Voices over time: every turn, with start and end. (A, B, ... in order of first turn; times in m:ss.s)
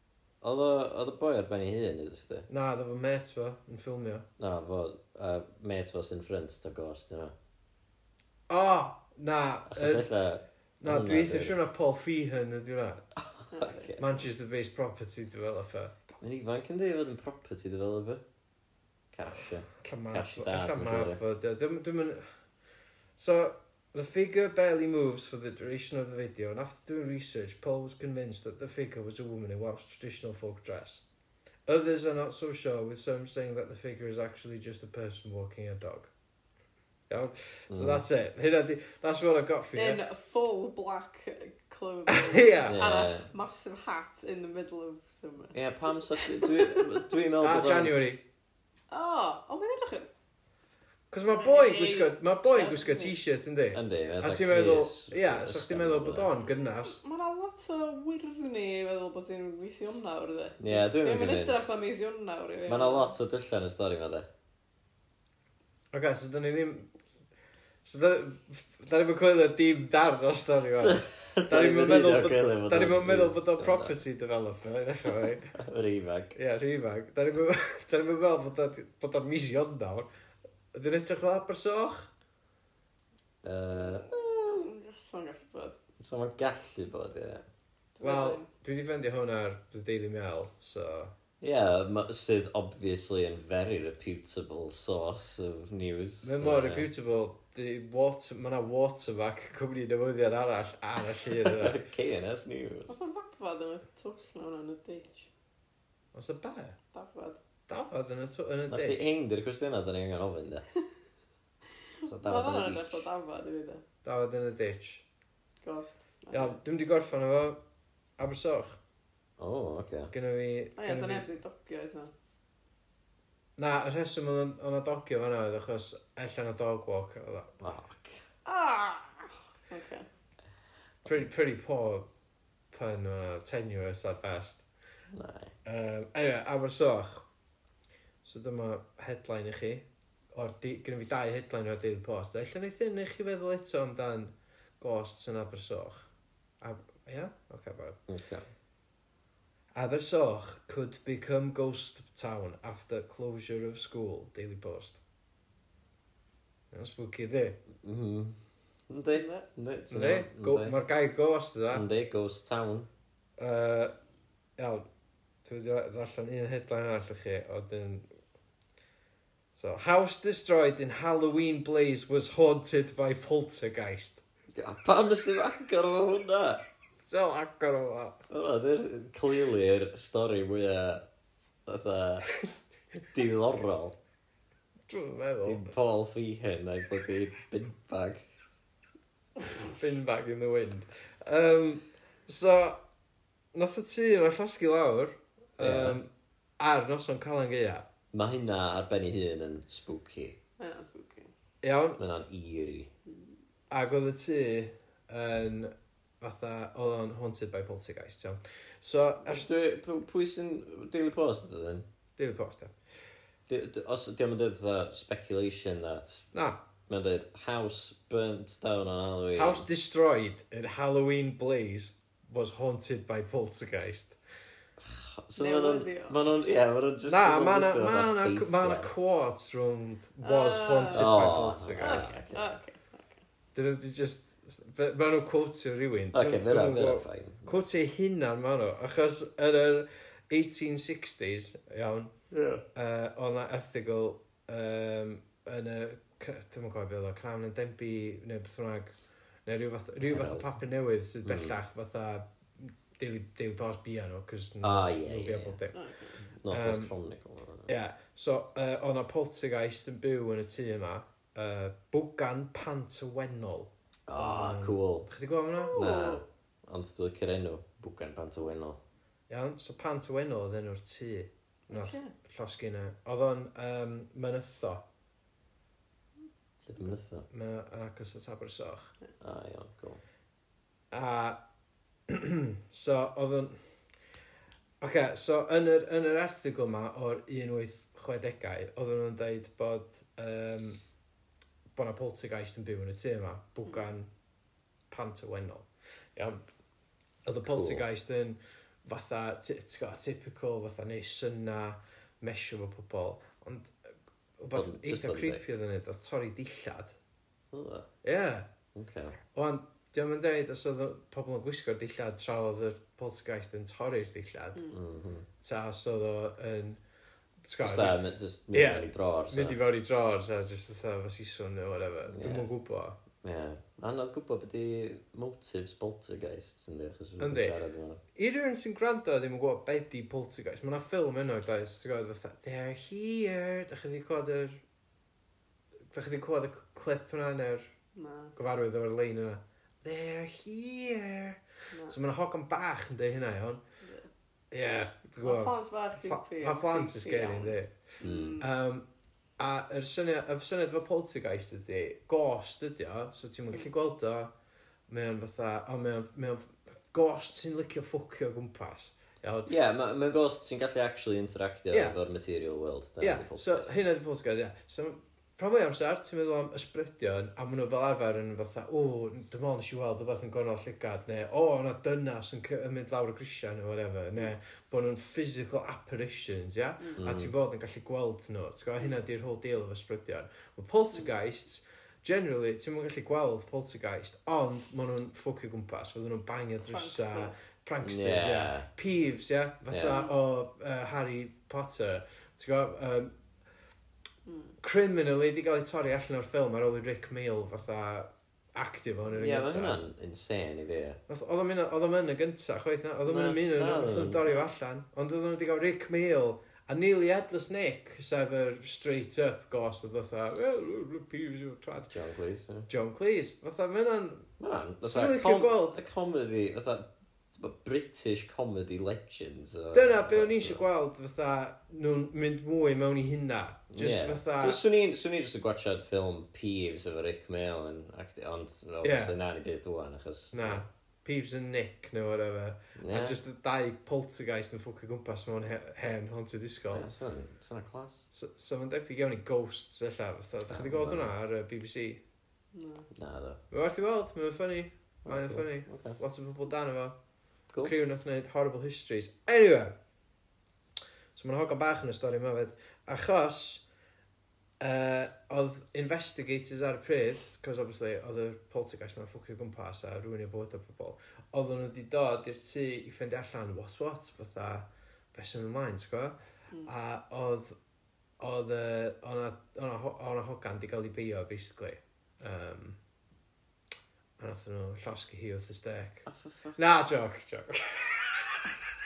0:00.4-0:02.5 A
0:02.5-0:04.3 B
0:04.4-0:07.3 A
0:08.5-0:10.1 B
0:09.7-0:11.6 A
0:10.8-0:13.0 B
0:13.2-0:14.0 A
0:13.5-0:14.2 C
0:14.0-0:16.0 B
0:16.2-0:18.2 A
0:19.1-0:21.2 A
0:19.8-0:22.2 B
0:23.2-0:31.0 B
0:31.7-0:36.1 B
0:37.1-0:40.0 B
0:37.7-0:38.0 A
0:39.8-0:47.1 C
0:42.1-0:42.8 B
0:42.7-0:43.3 A
0:45.5-0:48.0 A
0:47.4-0:48.2 B
0:48.9-0:50.1 C
0:51.1-0:57.0 B
0:51.3-0:53.2 C
0:53.7-0:56.3 A
0:56.8-1:03.1 C
1:00.6-1:01.7 A
1:02.7-1:04.3 A
1:05.9-1:06.9 B
1:07.8-1:15.5 B
1:10.8-1:14.0 A
1:15.6-1:16.4 A
1:16.4-1:20.1 B
1:20.7-1:22.1 B
1:23.4-1:24.7 A
1:23.8-1:25.8 C
1:26.0-1:27.4 A
1:28.0-1:28.5 C
1:28.0-1:31.1 B
1:31.4-1:36.9 A
1:36.2-1:41.8 B
1:41.3-1:43.0 A
1:42.9-1:45.3 C
1:46.1-1:46.8 B
1:46.9-1:47.4 C
1:47.7-1:49.2 B
1:48.7-1:50.6 A
1:52.0-1:53.8 C
1:52.0-1:53.1 A
1:54.0-1:55.0 B
1:55.6-1:56.6 C
1:56.3-1:57.6 B
1:58.2-1:58.8 B
1:59.4-2:00.1 A
2:00.1-2:01.3 B
2:00.8-2:02.1 C
2:03.6-2:07.7 B
2:07.6-2:08.2 A
2:08.4-2:10.1 C
2:11.1-2:12.1 B
2:12.7-2:14.7 B
2:15.1-2:15.5 A
2:15.6-2:17.3 B
2:18.2-2:26.1 B
2:26.6-2:28.0 B
2:28.1-2:28.5 A
2:29.8-2:35.0 B
2:36.7-2:37.6 B
2:37.8-2:40.8 A
2:39.1-2:39.5 C
2:39.9-2:41.9 B
2:41.7-2:42.9 A
2:43.4-2:43.9 B
2:44.6-2:44.9 B
2:45.4-2:48.1 B
2:49.5-2:54.2 B
2:54.6-2:56.6 A
2:57.1-2:58.2 B
2:58.3-3:01.1 A
3:01.7-3:02.3 A
3:03.1-3:04.0 A
3:04.9-3:05.7 B
3:05.4-3:08.2 A
3:09.6-3:12.8 B
3:13.5-3:17.9 B
3:15.6-3:16.0 A
3:18.1-3:20.4 A
3:20.6-3:21.3 C
3:21.6-3:22.0 B
3:22.0-3:22.9 A
3:23.7-3:29.5 B
3:29.2-3:31.9 A
3:32.2-3:32.7 B
3:33.5-3:36.3 A
3:36.3-3:36.6 B
3:36.9-3:39.7 A
3:39.4-3:44.2 B
3:44.8-3:48.9 A
3:45.4-3:46.2 C
3:47.1-3:52.2 B
3:50.2-3:53.2 C
3:50.9-3:52.5 A
3:53.6-4:02.1 B
3:56.1-3:57.6 A
4:02.3-4:02.6 A
4:02.7-4:09.0 B
4:09.5-4:15.8 B
4:10.0-4:10.5 A
4:11.2-4:11.6 A
4:14.6-4:15.6 A
4:15.7-4:16.2 C
4:16.4-4:17.7 A
4:16.5-4:16.9 B
4:17.7-4:25.8 B
4:24.1-4:25.1 A
4:25.7-4:26.2 C
4:25.7-4:28.8 A
4:29.3-4:34.8 B
4:31.7-4:32.1 C
4:36.6-4:37.3 A
4:37.3-4:38.9 B
4:39.2-4:40.0 A
4:40.9-4:41.4 B
4:42.1-4:43.6 B
4:44.8-4:50.8 B
4:51.8-4:54.1 B
4:54.9-4:56.4 B
4:57.3-5:03.7 B
4:57.4-4:57.8 A
5:04.4-5:07.0 B
5:04.5-5:05.5 A
5:07.5-5:07.9 A
5:08.0-5:08.5 B
5:08.8-5:09.2 A
5:09.3-5:14.7 B
5:14.7-5:15.3 A
5:15.4-5:16.8 B
5:17.4-5:18.0 B
5:17.6-5:19.6 A
5:18.5-5:23.0 B
5:22.1-5:22.5 A
5:23.2-5:28.0 A
5:27.2-5:27.6 B
5:28.2-5:34.6 B
5:35.9-5:37.7 B
5:38.0-5:38.4 C
5:38.4-5:43.6 B
5:41.7-5:42.0 C
5:43.8-5:44.1 C
5:44.5-5:47.8 B
5:45.2-5:48.5 C
5:48.0-5:48.4 A
5:48.4-5:48.9 B
5:49.4-5:54.3 B
5:54.9-5:59.5 B
5:59.5-6:03.8 A
6:03.0-6:33.1 B
6:17.0-6:17.3 A
6:26.6-6:27.4 C
6:27.8-6:28.7 A
6:29.7-6:30.1 A
6:34.3-6:34.5 C
6:34.6-6:39.8 B
6:39.1-6:41.0 A
6:41.1-6:51.9 B
6:43.1-6:44.3 A
6:51.9-6:52.7 A
6:52.7-6:55.8 B
6:54.4-7:00.7 A
6:59.7-7:04.6 B
7:03.7-7:10.6 A
7:08.8-7:09.2 B
7:10.3-7:16.9 B
7:12.8-7:13.2 A
7:16.7-7:18.0 A
7:18.1-7:22.0 B
7:20.5-7:21.1 A
7:22.5-7:22.9 C
7:22.9-7:23.4 A
7:23.5-7:27.0 B
7:25.0-7:26.0 A
7:27.6-7:29.8 B
7:31.2-7:33.6 B
7:34.6-7:47.6 B
7:48.2-7:52.8 B
7:54.2-7:58.5 B
7:56.1-7:56.6 A